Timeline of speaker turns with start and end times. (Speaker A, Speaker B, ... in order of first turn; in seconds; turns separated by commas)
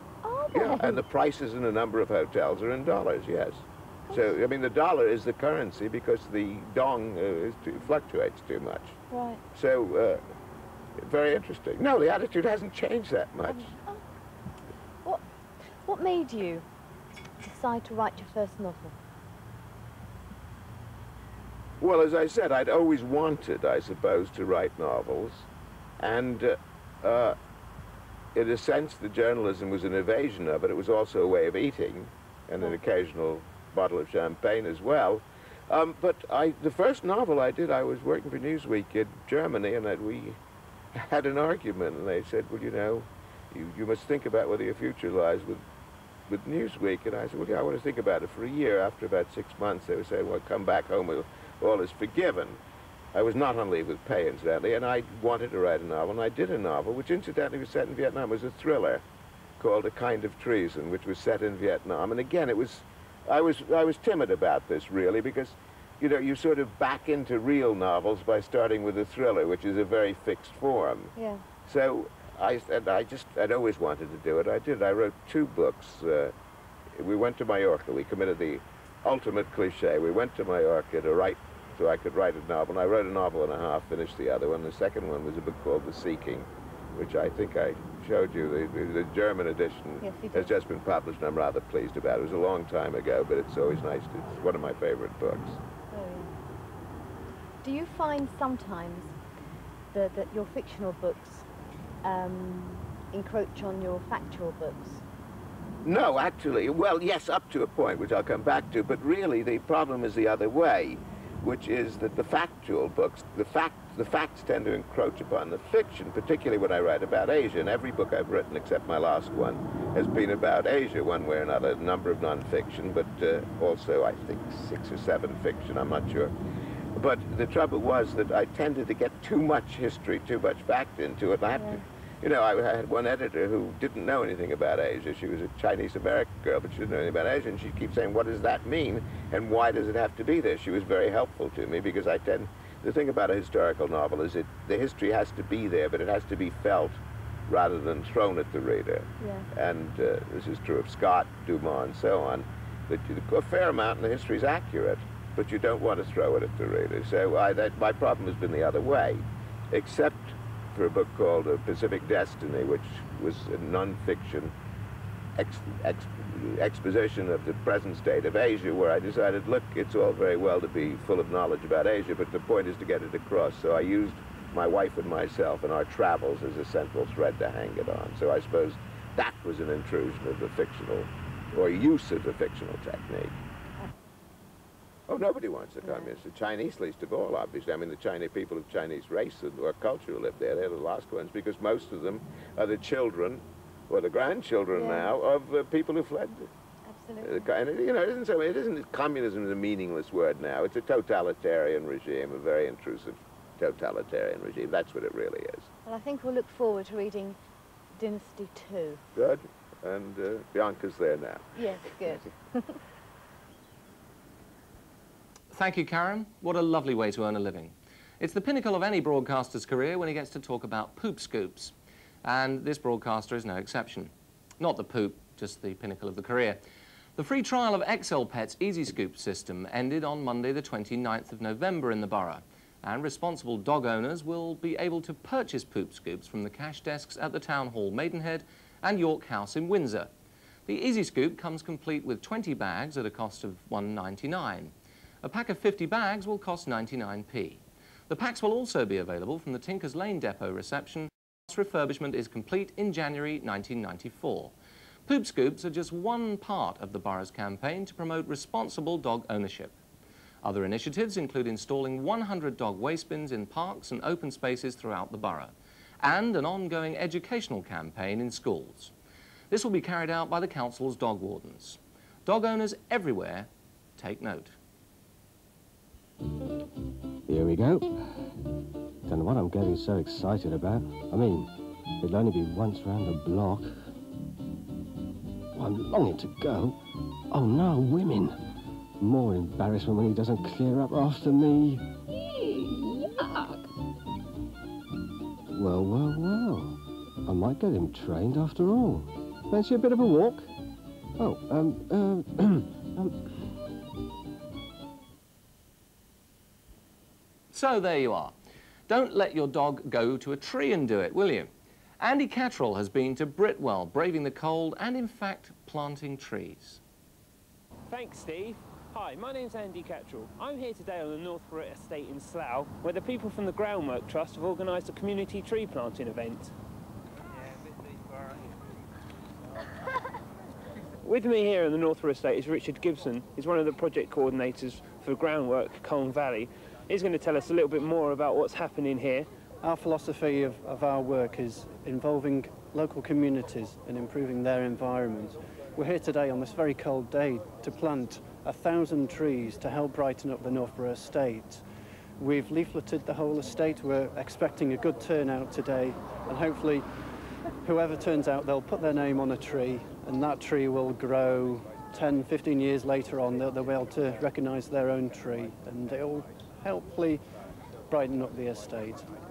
Speaker A: 0.2-1.0, Speaker B: 0.5-8.9, Speaker A: 4.1-4.4, Speaker A: 9.1-9.4, Speaker B: 9.5-10.2, Speaker B: 11.0-13.7, Speaker A: 13.4-14.0, Speaker A: 15.8-16.7, Speaker A: 17.4-19.0, Speaker B: 21.8-25.5, Speaker B: 26.0-27.4, Speaker B: 28.4-40.4, Speaker B: 40.9-45.6, Speaker B: 46.3-52.6, Speaker B: 53.1-59.0, Speaker B: 59.6-71.1, Speaker A: 71.2-71.5, Speaker B: 71.7-76.3, Speaker B: 77.0-95.6, Speaker A: 90.0-90.5, Speaker A: 95.9-96.3, Speaker A: 97.6-99.2, Speaker A: 99.9-101.5, Speaker A: 102.0-105.0, Speaker B: 105.8-126.3, Speaker B: 127.0-164.5, Speaker A: 131.5-131.8, Speaker A: 149.2-149.5, Speaker B: 165.4-183.4, Speaker B: 185.1-196.5, Speaker A: 185.8-186.1, Speaker A: 194.7-195.1, Speaker A: 196.8-197.5, Speaker B: 197.2-205.7, Speaker A: 205.8-207.4, Speaker A: 207.9-209.0, Speaker B: 209.2-211.5, Speaker A: 211.6-212.8, Speaker C: 215.5-221.7, Speaker C: 222.2-226.6, Speaker C: 227.2-240.1, Speaker C: 240.7-254.5, Speaker C: 255.1-259.7, Speaker C: 260.4-268.9, Speaker C: 269.5-274.6, Speaker D: 277.3-277.9, Speaker D: 279.1-283.7, Speaker D: 285.6-286.8, Speaker D: 287.3-288.4, Speaker D: 289.0-291.9, Speaker D: 295.5-300.5, Speaker D: 301.2-303.4, Speaker C: 307.5-308.3, Speaker C: 308.9-311.5, Speaker C: 312.0-316.8, Speaker E: 317.9-326.5, Speaker E: 331.0-339.3, Speaker F: 339.6-351.6, Speaker F: 352.2-356.9, Speaker F: 357.6-367.2, Speaker F: 367.9-369.1